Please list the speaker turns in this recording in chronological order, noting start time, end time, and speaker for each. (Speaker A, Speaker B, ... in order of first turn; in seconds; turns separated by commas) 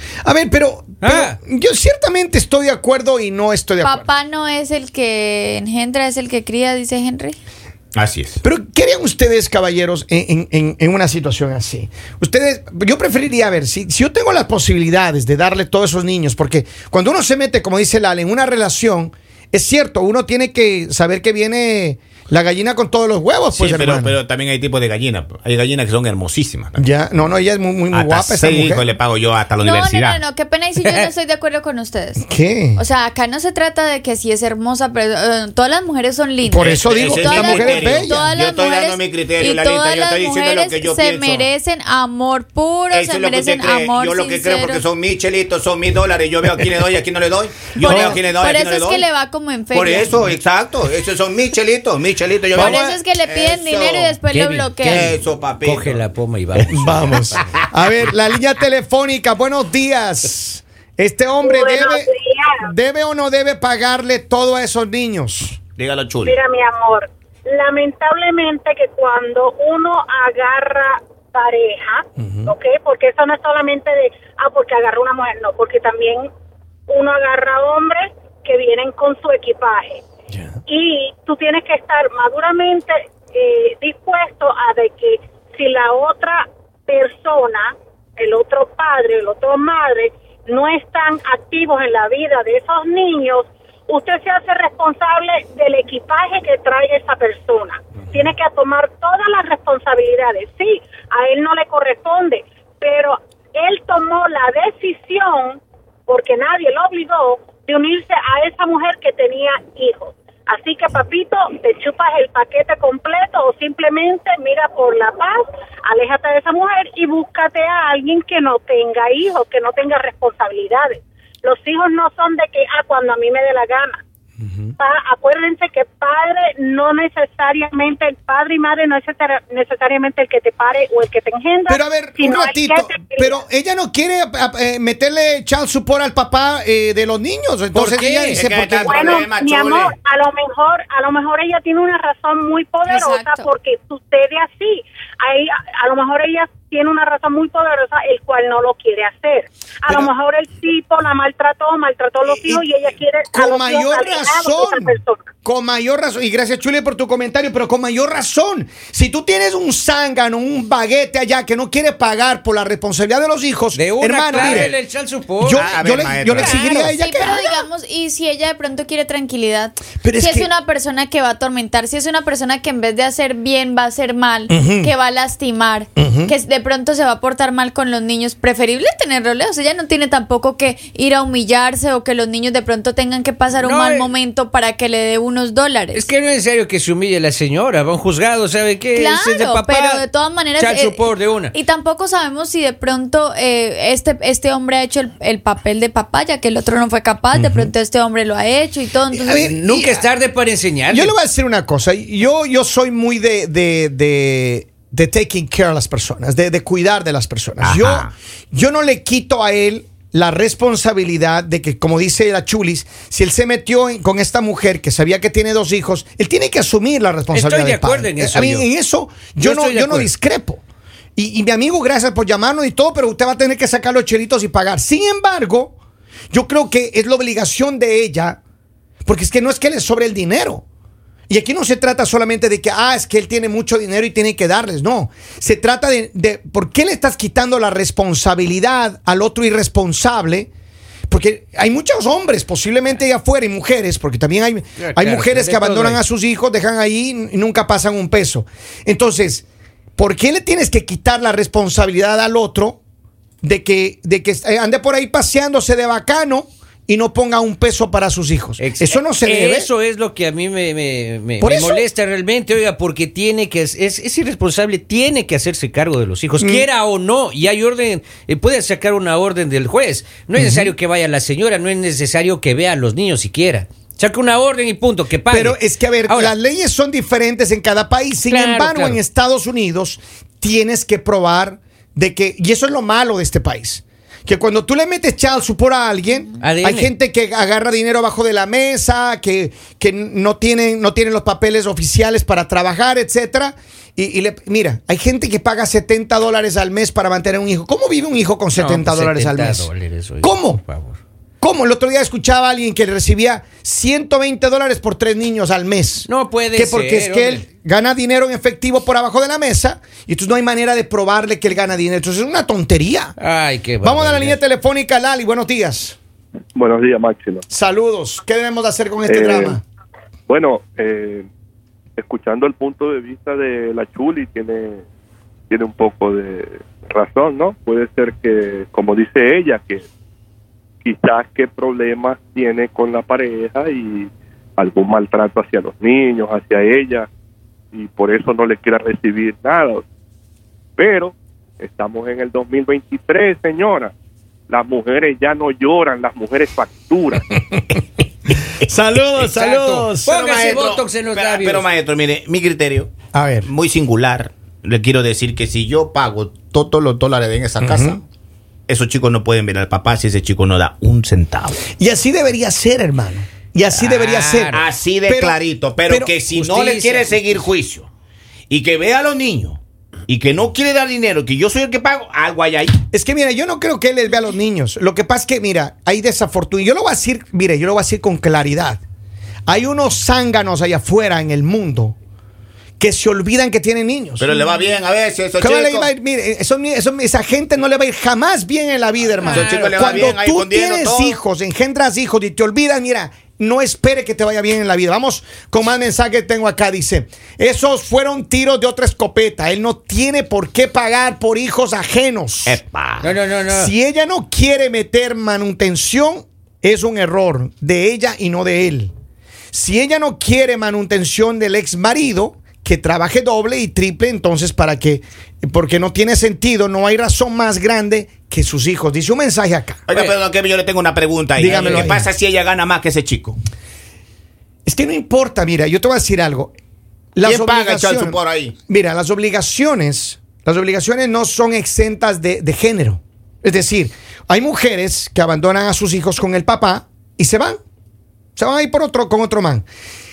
Speaker A: 0.2-4.1, Speaker B: 1.0-1.4, Speaker C: 3.8-7.4, Speaker D: 8.0-8.4, Speaker A: 8.4-24.2, Speaker D: 23.5-26.9, Speaker A: 26.8-28.9, Speaker D: 27.9-30.2, Speaker C: 29.6-32.2, Speaker A: 32.2-32.8, Speaker C: 32.8-44.9, Speaker A: 36.5-38.2, Speaker D: 36.6-41.5, Speaker D: 42.9-49.1, Speaker C: 47.8-50.1, Speaker A: 47.8-48.2, Speaker D: 49.7-54.2, Speaker A: 52.5-53.0, Speaker C: 52.5-55.1, Speaker B: 54.3-57.5, Speaker D: 54.8-56.0, Speaker A: 56.7-65.6, Speaker E: 61.4-62.7, Speaker D: 65.8-66.4, Speaker E: 66.2-76.3, Speaker A: 72.2-72.5, Speaker E: 76.9-80.0, Speaker E: 80.7-124.0, Speaker A: 124.4-124.7, Speaker E: 124.8-133.4, Speaker A: 131.7-139.2, Speaker B: 137.7-138.4, Speaker D: 138.3-139.9, Speaker E: 138.7-155.3, Speaker C: 142.9-143.5, Speaker A: 152.3-152.6, Speaker A: 153.3-164.7, Speaker B: 163.8-165.8, Speaker D: 164.4-164.7, Speaker A: 165.4-167.7, Speaker D: 165.5-166.9, Speaker C: 166.4-186.1, Speaker A: 170.0-170.5, Speaker A: 174.5-174.9, Speaker A: 176.0-176.3, Speaker B: 183.6-184.1, Speaker B: 185.9-190.1, Speaker C: 188.9-199.5, Speaker B: 190.6-191.5, Speaker A: 197.3-197.7, Speaker A: 199.1-200.1, Speaker B: 199.4-201.1, Speaker A: 200.9-220.6, Speaker D: 207.6-208.1, Speaker B: 217.3-218.7, Speaker B: 219.4-220.1, Speaker A: 221.2-225.8, Speaker A: 226.3-228.4, Speaker A: 229.1-230.7, Speaker A: 231.3-240.5, Speaker A: 241.1-249.4, Speaker B: 244.8-246.0, Speaker A: 250.0-252.8, Speaker A: 253.4-259.7, Speaker B: 258.6-276.3, Speaker A: 261.4-261.9, Speaker A: 266.4-266.7, Speaker A: 270.4-270.7, Speaker A: 275.3-299.7, Speaker B: 278.3-279.0, Speaker B: 286.4-286.9, Speaker B: 298.6-301.0, Speaker A: 300.2-300.6, Speaker A: 301.4-313.1, Speaker B: 306.1-307.4, Speaker B: 313.2-314.4, Speaker A: 313.8-316.0, Speaker F: 316.6-317.4, Speaker A: 317.5-319.6, Speaker F: 319.1-319.6, Speaker F: 320.3-321.3, Speaker F: 322.0-324.8, Speaker F: 325.5-329.9, Speaker F: 330.8-337.1, Speaker F: 337.7-339.9, Speaker F: 340.8-343.9, Speaker F: 344.5-347.4, Speaker A: 348.6-350.1, Speaker B: 349.2-351.6, Speaker D: 350.1-352.9, Speaker A: 353.1-353.5, Speaker D: 353.4-358.0, Speaker A: 357.6-358.0, Speaker D: 358.7-361.6, Speaker A: 361.8-366.1, Speaker B: 363.7-364.6, Speaker D: 364.5-367.9, Speaker B: 366.3-367.2, Speaker D: 368.5-372.8, Speaker A: 372.9-378.8, Speaker A: 379.5-382.0, Speaker A: 382.8-384.3, Speaker D: 384.2-385.9, Speaker A: 385.4-402.6, Speaker B: 389.2-390.1, Speaker D: 389.3-391.1, Speaker D: 402.5-403.1, Speaker B: 403.0-403.7, Speaker A: 403.5-408.9, Speaker A: 409.5-419.8, Speaker D: 419.9-423.4, Speaker B: 419.9-420.2, Speaker A: 421.4-422.1, Speaker A: 424.7-426.5, Speaker A: 427.1-437.6, Speaker D: 427.2-428.5, Speaker A: 438.4-439.6